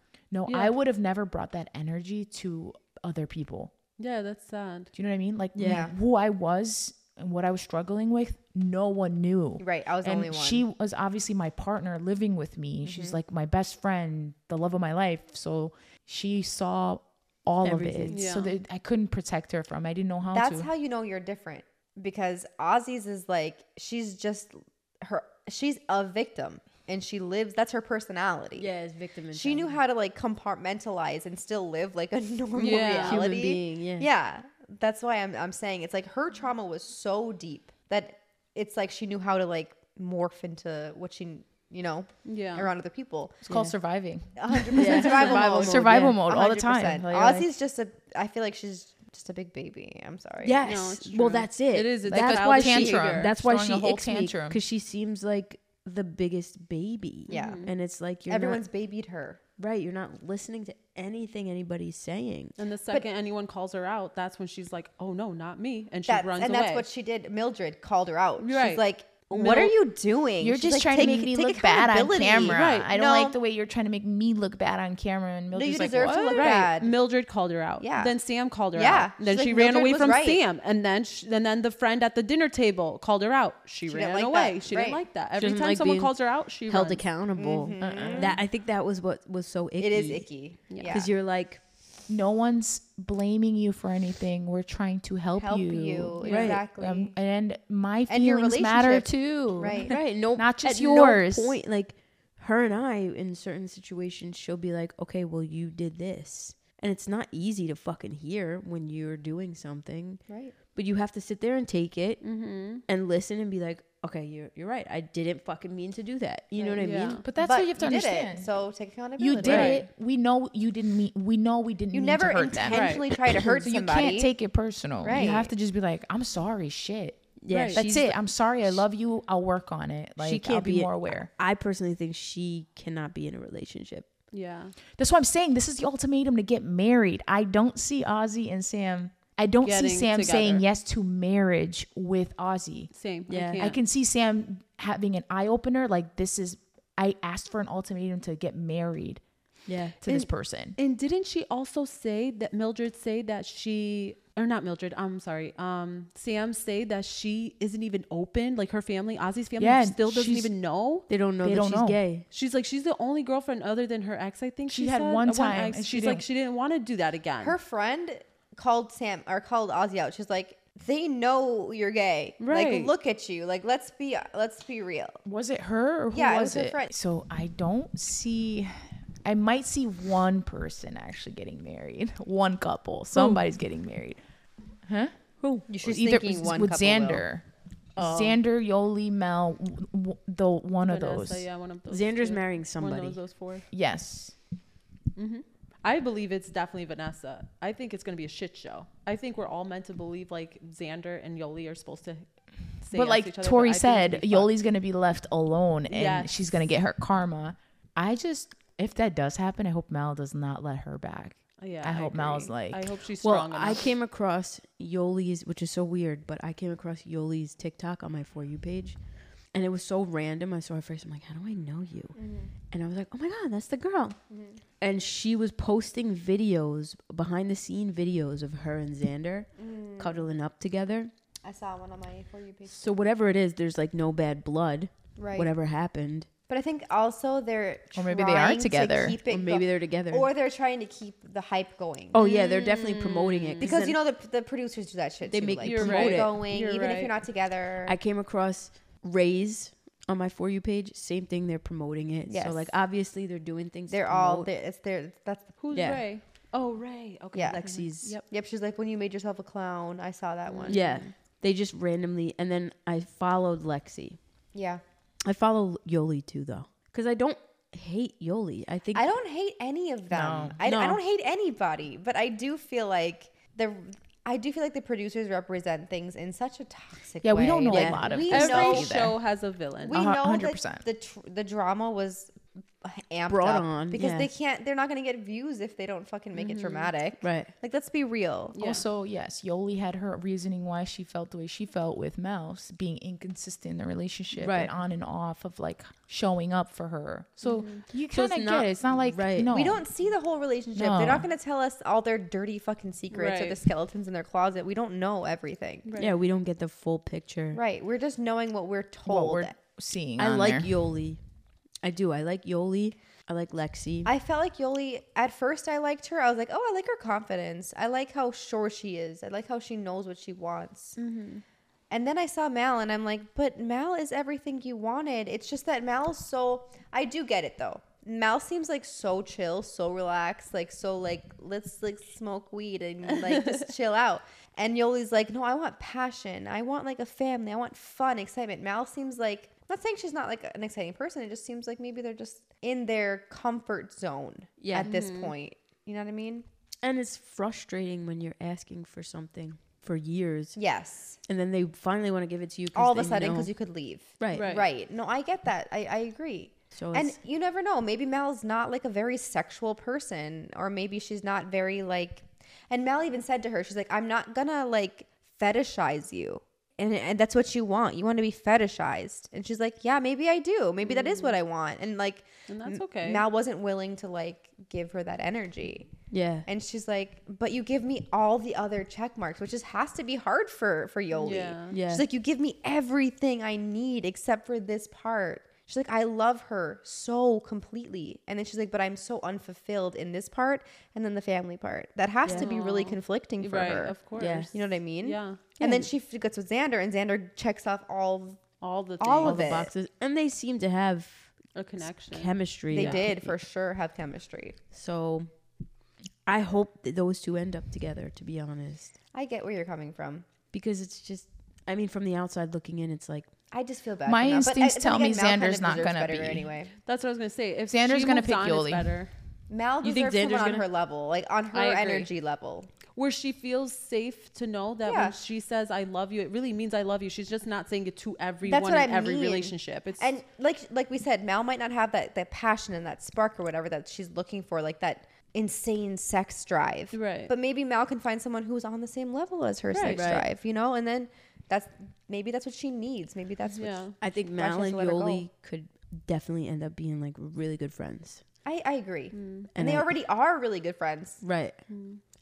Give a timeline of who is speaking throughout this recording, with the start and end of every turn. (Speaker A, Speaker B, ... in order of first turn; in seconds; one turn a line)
Speaker A: 0.3-3.7
Speaker B: 0.5-0.7
Speaker B: 4.0-4.9
Speaker A: 5.0-20.7
Speaker C: 5.6-5.9
Speaker D: 5.6-5.9
Speaker D: 9.6-10.6
Speaker D: 12.8-13.2
Speaker C: 17.6-18.3
Speaker B: 18.1-18.5
Speaker D: 20.3-28.7
Speaker C: 28.6-29.8
Speaker D: 29.3-43.4
Speaker B: 32.6-33.2
Speaker C: 33.0-34.1
Speaker B: 42.2-42.7
Speaker A: 43.4-47.5
Speaker C: 43.5-43.7
Speaker D: 44.4-50.6
Speaker C: 44.8-46.2
Speaker C: 50.4-58.6
Speaker B: 50.6-53.3
Speaker A: 52.1-54.6
Speaker D: 57.3-57.7
Speaker B: 57.3-57.7
Speaker D: 58.3-59.4
Speaker C: 59.6-62.5
Speaker B: 62.6-66.9
Speaker D: 66.1-73.4
Speaker B: 68.4-68.8
Speaker C: 69.3-69.7
Speaker A: 70.4-76.5
Speaker B: 72.5-72.9
Speaker D: 75.5-76.9
Speaker B: 76.3-87.0
Speaker D: 77.8-78.1
Speaker D: 78.7-80.4
Speaker D: 83.9-85.0
Speaker C: 85.4-86.2
Speaker C: 86.7-90.3
Speaker D: 87.4-88.4
Speaker A: 87.8-88.3
Speaker D: 89.8-91.1
Speaker B: 90.7-91.0
Speaker C: 90.9-91.6
Speaker A: 92.1-101.6
Speaker D: 95.4-97.2
Speaker C: 96.2-96.6
Speaker B: 96.2-96.6
Speaker D: 98.1-100.0
Speaker C: 99.8-117.3
Speaker D: 110.3-110.5
Speaker B: 112.2-112.8
Speaker D: 116.6-119.8
Speaker B: 116.8-117.2
Speaker A: 117.2-118.5
Speaker A: 119.2-131.3
Speaker B: 119.4-119.8
Speaker C: 119.5-119.7
Speaker D: 121.9-124.3
Speaker B: 122.7-123.0
Speaker D: 125.0-125.5
Speaker C: 127.4-128.2
Speaker B: 127.5-127.8
Speaker C: 130.2-134.1
Speaker B: 134.3-134.8
Speaker A: 135.0-142.9
Speaker B: 139.6-140.7
Speaker B: 142.9-143.8
Speaker C: 143.3-143.7
Speaker A: 143.6-149.2
Speaker C: 149.7-150.0
Speaker A: 150.0-150.8
Speaker B: 150.1-161.1
Speaker A: 159.6-160.5
Speaker C: 161.1-162.2
Speaker A: 161.4-162.0
Speaker B: 162.3-167.6
Speaker A: 164.7-166.2
Speaker D: 167.4-175.2
Speaker B: 172.4-172.9
Speaker A: 175.2-184.2
Speaker D: 176.1-176.9
Speaker C: 183.1-183.4
Speaker A: 184.9-185.1
Speaker D: 185.7-187.2
Speaker A: 185.7-191.5
Speaker C: 188.0-188.3
Speaker B: 190.9-193.7
Speaker C: 191.9-193.2
Speaker A: 193.7-194.3
Speaker B: 195.2-202.2
Speaker B: 202.8-204.5
Speaker A: 202.9-212.9
Speaker B: 205.9-206.3
Speaker B: 211.6-213.9
Speaker C: 213.2-219.0
Speaker C: 219.5-222.2
Speaker D: 222.2-222.5
Speaker C: 222.7-224.2
Speaker D: 224.3-224.6
Speaker C: 224.8-231.1
Speaker D: 229.6-230.2
Speaker D: 231.4-232.8
Speaker C: 232.7-236.3
Speaker D: 235.2-235.5
Speaker D: 236.5-248.0
Speaker A: 237.9-239.2
Speaker C: 239.3-240.3
Speaker C: 242.1-244.0
Speaker B: 242.2-242.6
Speaker B: 243.3-243.8
Speaker C: 245.3-247.1
Speaker B: 245.6-246.6
Speaker C: 247.9-254.5
Speaker D: 252.3-252.8
Speaker D: 253.9-255.5
Speaker B: 255.6-258.3
Speaker C: 255.7-256.0
Speaker D: 257.3-257.6
Speaker C: 257.5-258.2
Speaker D: 258.3-261.0
Speaker B: 260.5-261.1
Speaker C: 260.7-264.2
Speaker D: 264.5-264.8
Speaker C: 265.2-269.1
Speaker D: 268.9-278.9
Speaker A: 270.1-270.6
Speaker C: 270.6-271.0
Speaker A: 277.2-279.2
Speaker C: 277.7-278.7
Speaker B: 278.1-280.0
Speaker D: 279.9-288.6
Speaker A: 279.9-280.8
Speaker C: 283.3-284.3
Speaker B: 286.4-286.9
Speaker C: 287.2-287.5
Speaker B: 288.5-288.8
Speaker A: 288.6-299.8
Speaker C: 294.4-294.7
Speaker B: 297.4-297.8
Speaker C: 298.1-299.5
Speaker D: 299.5-305.9
Speaker A: 300.8-301.3
Speaker B: 303.1-303.6
Speaker B: 305.9-306.1
Speaker C: 306.0-307.6
Speaker D: 307.5-309.6
Speaker A: 309.1-310.7
Speaker C: 310.2-311.2
Speaker C: 311.8-314.1
Speaker D: 314.1-321.0
Speaker B: 321.0-321.4
Speaker D: 321.9-346.4
Speaker B: 333.2-333.7
Speaker C: 344.6-344.9
Speaker B: 344.7-345.3
Speaker C: 346.8-350.6
Speaker D: 350.6-351.2
Speaker C: 351.3-353.5
Speaker D: 352.8-375.9
Speaker C: 354.2-354.5
Speaker B: 354.3-354.7
Speaker C: 356.7-357.2
Speaker B: 370.8-371.4
Speaker B: 372.5-373.2
Speaker C: 376.1-376.5
Speaker D: 376.5-394.0
Speaker B: 381.1-381.8
Speaker C: 381.7-382.1
Speaker C: 392.2-392.5
Speaker B: 392.3-395.6
Speaker C: 394.2-394.5
Speaker D: 394.5-398.4
Speaker B: 398.6-399.4
Speaker D: 399.0-399.7
Speaker C: 399.2-401.3
Speaker B: 401.6-403.0
Speaker C: 402.1-403.4
Speaker D: 402.7-404.6
Speaker C: 404.7-405.3
Speaker C: 406.3-408.9
Speaker D: 409.1-410.3
Speaker C: 410.5-413.3
Speaker D: 413.5-416.7
Speaker A: 414.1-416.5
Speaker B: 416.9-419.1
Speaker A: 417.7-418.9
Speaker D: 419.5-422.7
Speaker C: 419.8-420.7
Speaker B: 421.5-422.1
Speaker B: 422.9-430.1
Speaker D: 424.9-425.2
Speaker D: 428.4-445.3
Speaker B: 436.9-437.3
Speaker B: 439.7-440.1
Speaker C: 439.9-440.3
Speaker B: 443.6-444.0
Speaker C: 444.0-448.2
Speaker D: 448.4-451.2
Speaker B: 449.1-449.5
Speaker C: 449.5-449.9
Speaker C: 451.2-451.6
Speaker B: 451.7-452.0